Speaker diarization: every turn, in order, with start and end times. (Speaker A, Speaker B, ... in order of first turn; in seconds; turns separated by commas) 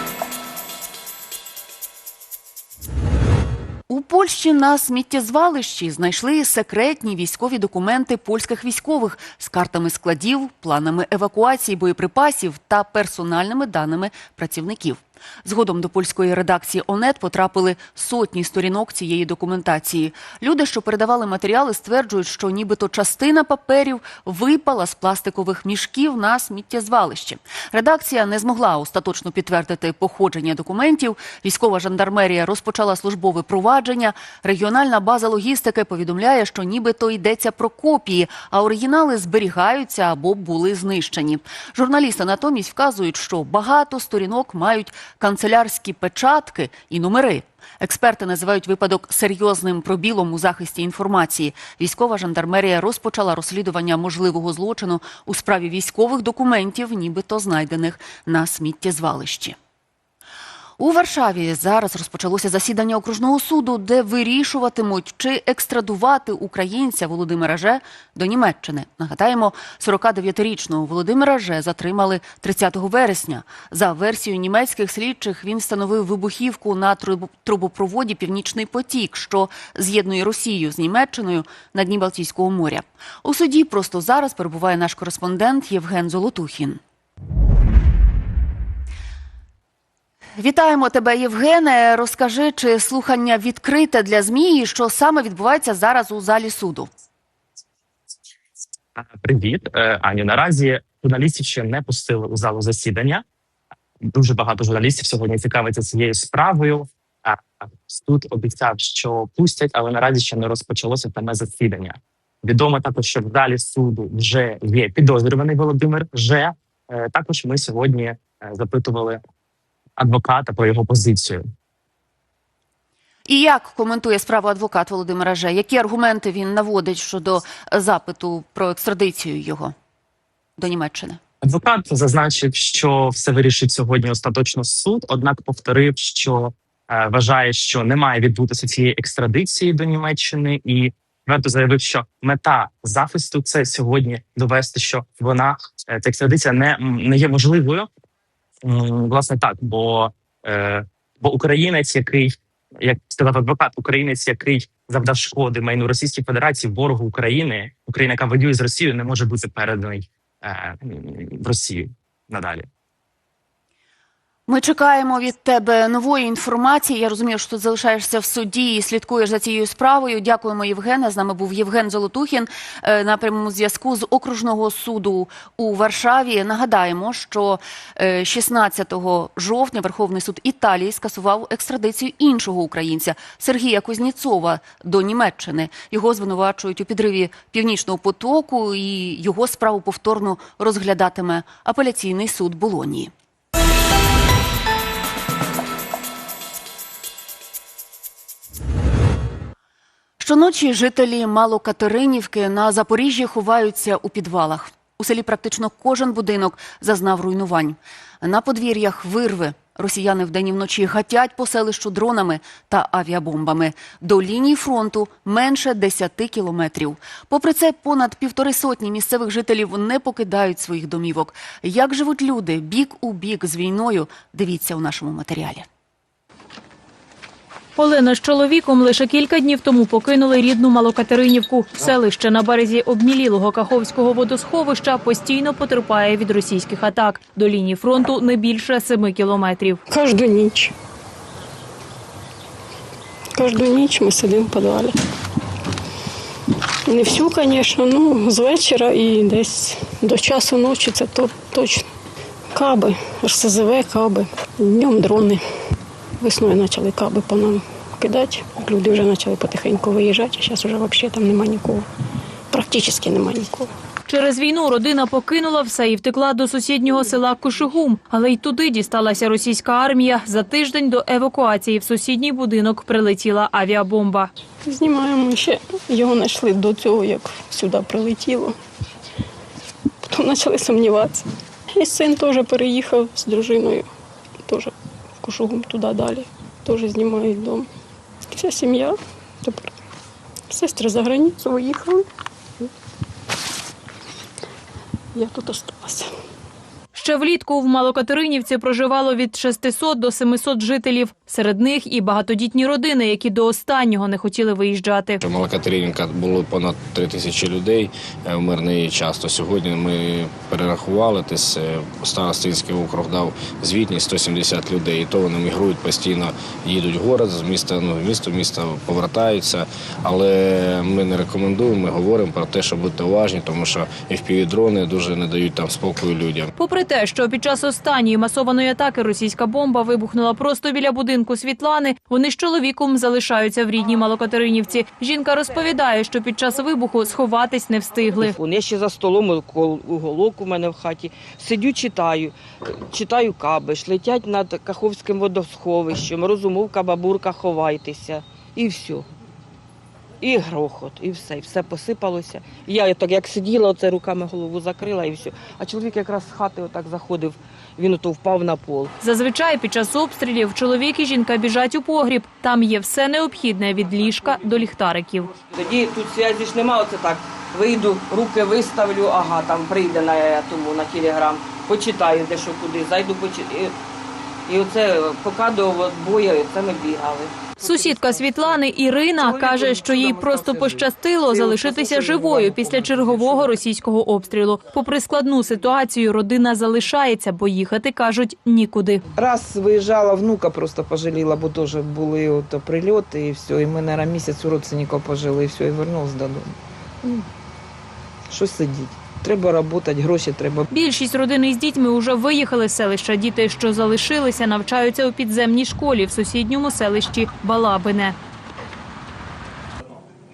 Speaker A: 3.9-59.6, Speaker A: 60.8-86.8, Speaker A: 90.4-96.9, Speaker B: 99.0-103.2, Speaker B: 104.0-119.2, Speaker B: 120.0-121.5, Speaker A: 123.3-129.7, Speaker A: 130.6-131.2, Speaker B: 131.4-147.9, Speaker B: 148.7-162.7, Speaker A: 164.5-193.1, Speaker A: 200.2-225.7, Speaker C: 227.8-239.8, Speaker D: 239.9-240.7, Speaker D: 243.4-244.9, Speaker D: 246.9-251.9, Speaker D: 252.5-255.4, Speaker D: 256.2-261.9, Speaker D: 262.5-263.7, Speaker C: 264.1-274.3, Speaker D: 274.7-278.6, Speaker D: 280.1-281.3, Speaker D: 281.8-283.9, Speaker D: 284.5-287.7, Speaker D: 288.3-289.7, Speaker D: 290.5-292.1, Speaker D: 295.1-296.1, Speaker C: 296.9-305.2, Speaker E: 305.2-326.5, Speaker C: 326.6-338.4, Speaker F: 338.2-349.1, Speaker F: 350.2-358.9, Speaker C: 359.0-365.4, Speaker F: 365.5-373.8, Speaker F: 374.5-377.4, Speaker C: 377.6-389.0, Speaker F: 379.5-383.5, Speaker G: 389.1-397.3, Speaker G: 398.3-400.7, Speaker C: 400.7-408.2